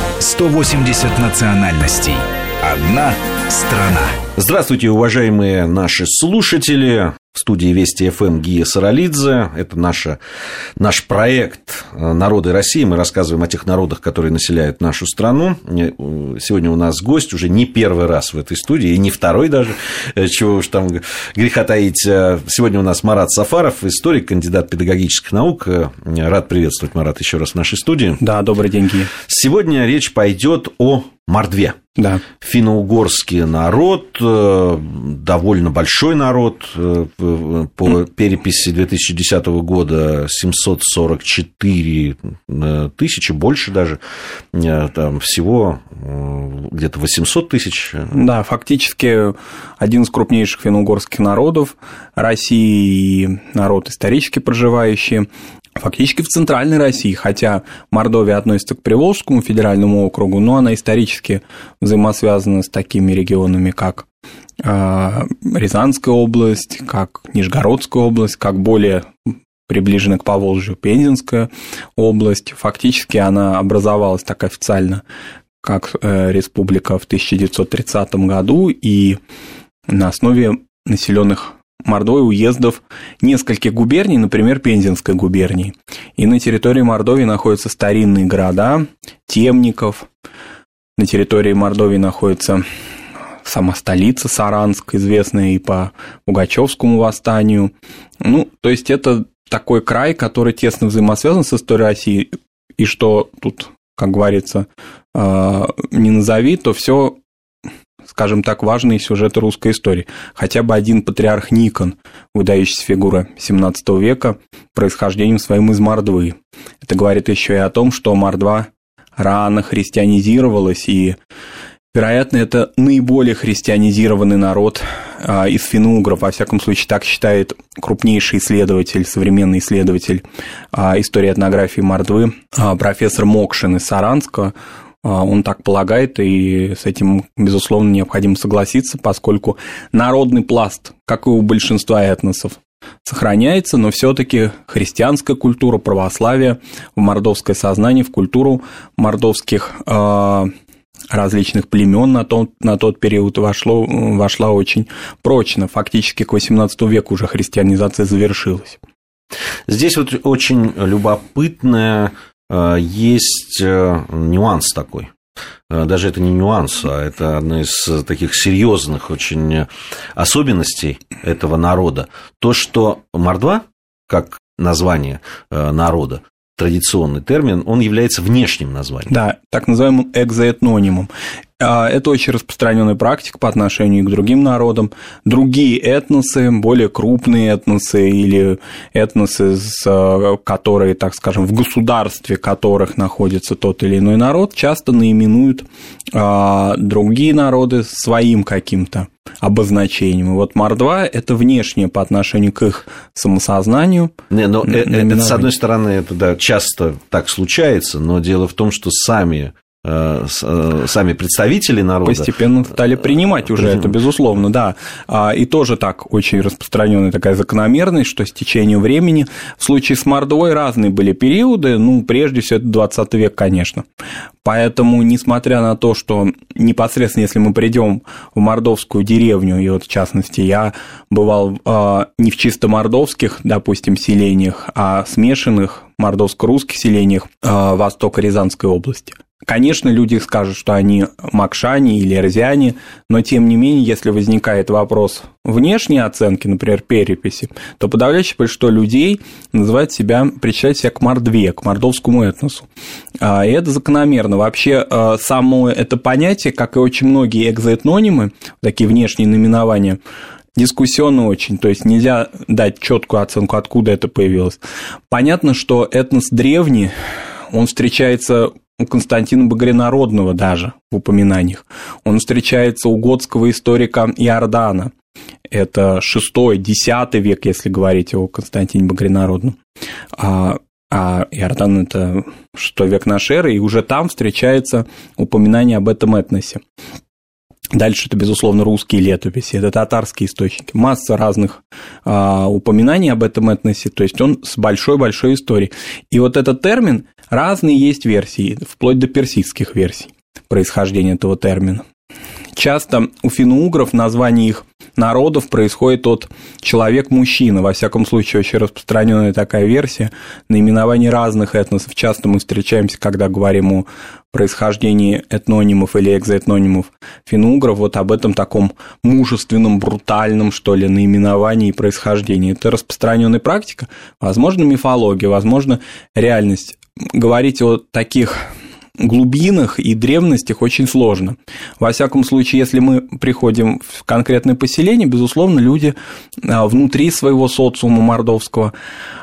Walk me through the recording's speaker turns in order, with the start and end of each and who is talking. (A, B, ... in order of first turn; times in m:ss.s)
0:00.2-0:04.2 A
0:04.4-0:10.2 B
0:10.8-0:28.2 B
0:28.2-0:29.1 C
0:29.3-0:31.8 B
0:32.0-0:32.2 C
0:32.4-0:44.0 B
0:44.5-0:48.1 B
0:48.1-0:55.3 C
0:55.8-1:04.1 C
1:04.6-1:09.1 C
1:09.7-1:15.0 C
1:15.6-1:19.2 C
1:19.9-1:30.1 C
1:31.0-1:32.6 C
1:33.4-1:47.2 C
1:48.1-2:01.2 C
2:01.9-2:30.5 C
2:31.1-2:38.8 C
2:39.7-2:45.1 B
2:45.7-2:59.1 B
2:59.1-3:25.5 C
3:24.3-3:32.3 B
3:32.0-3:43.8 C
3:33.4-3:34.0 B
3:44.4-4:12.7 C
4:13.2-4:20.0 C
4:20.6-4:26.9 C
4:27.5-4:34.9 C
4:35.5-4:39.6 C
4:40.2-4:46.6 C
4:47.7-5:01.8 C
5:02.6-5:28.4 C
5:29.0-5:38.7 C